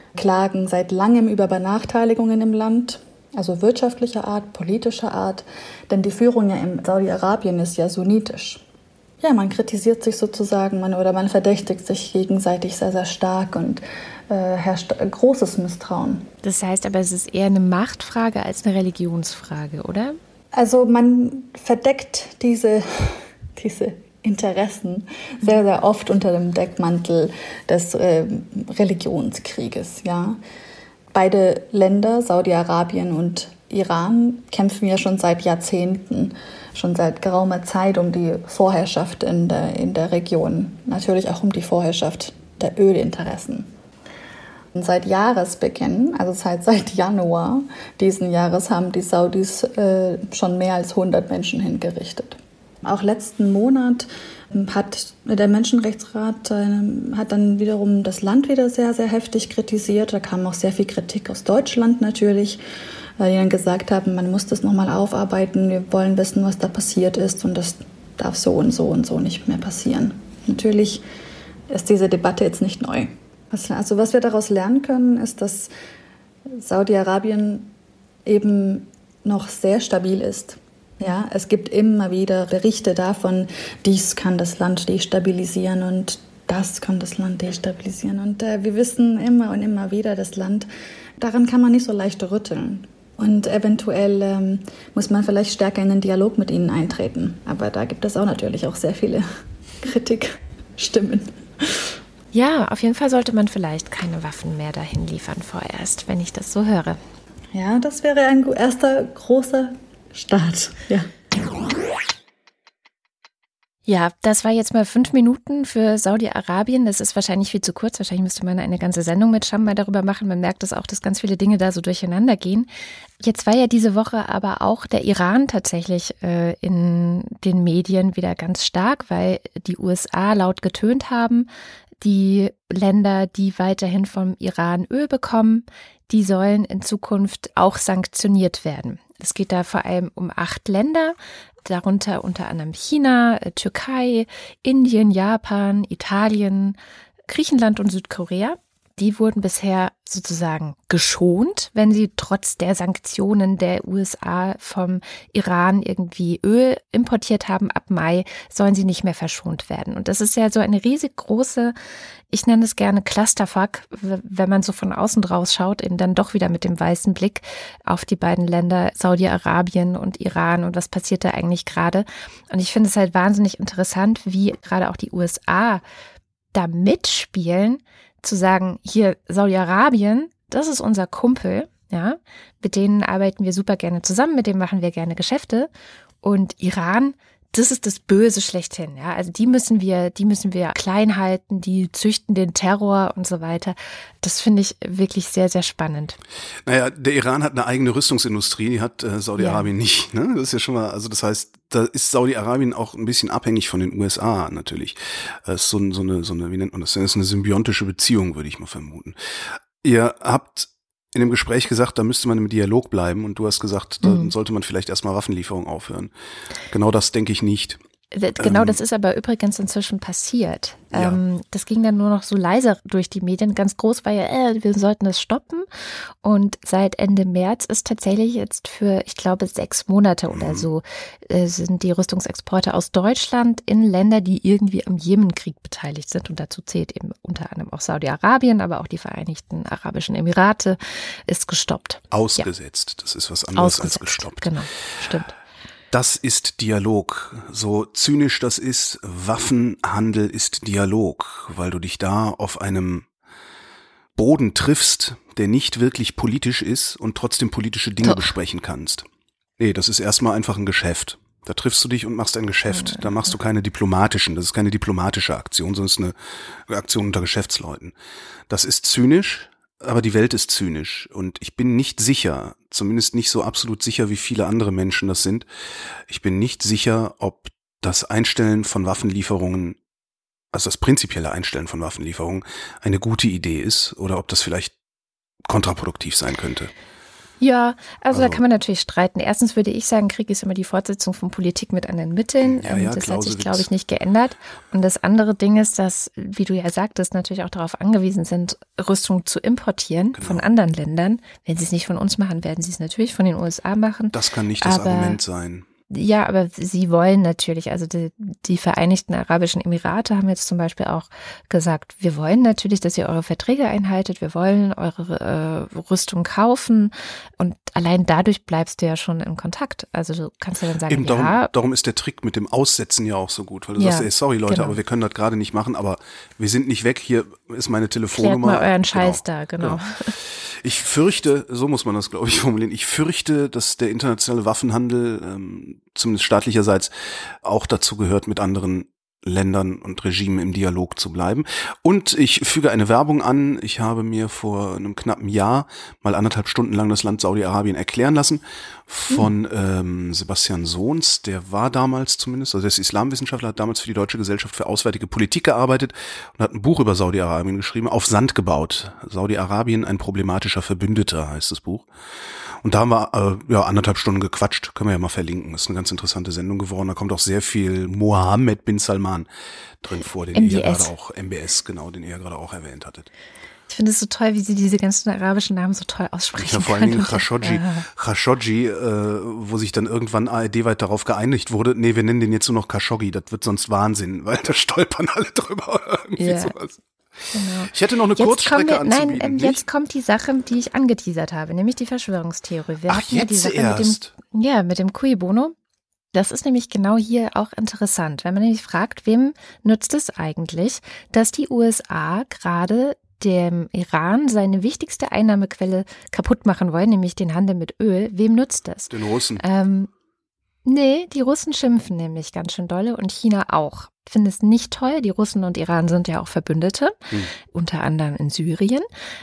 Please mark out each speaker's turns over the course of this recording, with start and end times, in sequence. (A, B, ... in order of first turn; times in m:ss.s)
0:00.1-0:08.6 A
0:09.2-0:16.3 A
0:16.4-0:20.2 B
0:20.5-0:30.4 A
0:31.1-0:43.7 A
0:44.7-1:02.6 A
1:03.2-1:11.0 A
1:11.7-1:15.7 A
1:16.5-1:17.7 A
1:18.2-1:39.2 A
1:39.8-1:41.8 A
1:42.3-1:47.0 B
1:47.5-1:51.1 A
1:53.9-2:02.7 B
2:03.2-2:11.5 B
2:12.0-2:21.1 B
2:21.6-2:26.8 B
2:27.3-2:41.7 B
2:42.3-2:55.8 B
2:56.5-3:05.7 B
3:06.2-3:16.2 B
3:16.6-3:29.2 C
3:19.4-3:19.7 B
3:29.8-3:36.1 C
3:34.0-3:34.3 B
3:36.7-3:37.8 C
3:38.1-3:45.7 B
3:38.4-3:38.8 C
3:40.9-3:41.2 C
3:46.2-4:02.5 B
3:50.3-3:50.7 C
4:02.1-4:04.5 C
4:03.6-4:05.3 B
4:05.9-4:13.1 C
4:14.2-4:19.1 C
4:18.0-4:18.3 B
4:19.6-4:27.9 C
4:22.8-4:23.1 B
4:28.5-4:39.8 C
4:40.5-4:44.7 C
4:45.4-4:46.7 C
4:47.4-5:05.2 B
4:48.1-4:48.4 C
4:52.4-4:53.7 C
5:00.2-5:00.5 C
5:04.1-5:05.7 C
5:05.9-5:21.5 B
5:20.9-6:01.9 C
5:23.8-5:24.8 B
5:28.1-5:30.2 B
6:02.6-6:09.3 C
6:09.8-6:13.1 C
6:10.3-6:10.9 B
6:13.7-6:17.8 B
6:16.4-6:26.8 C
6:26.2-6:26.5 B
6:27.3-6:35.5 B
6:27.7-6:29.6 C
6:32.9-6:34.1 C
6:36.1-6:49.9 B
6:48.9-6:49.4 C
6:50.6-6:58.9 B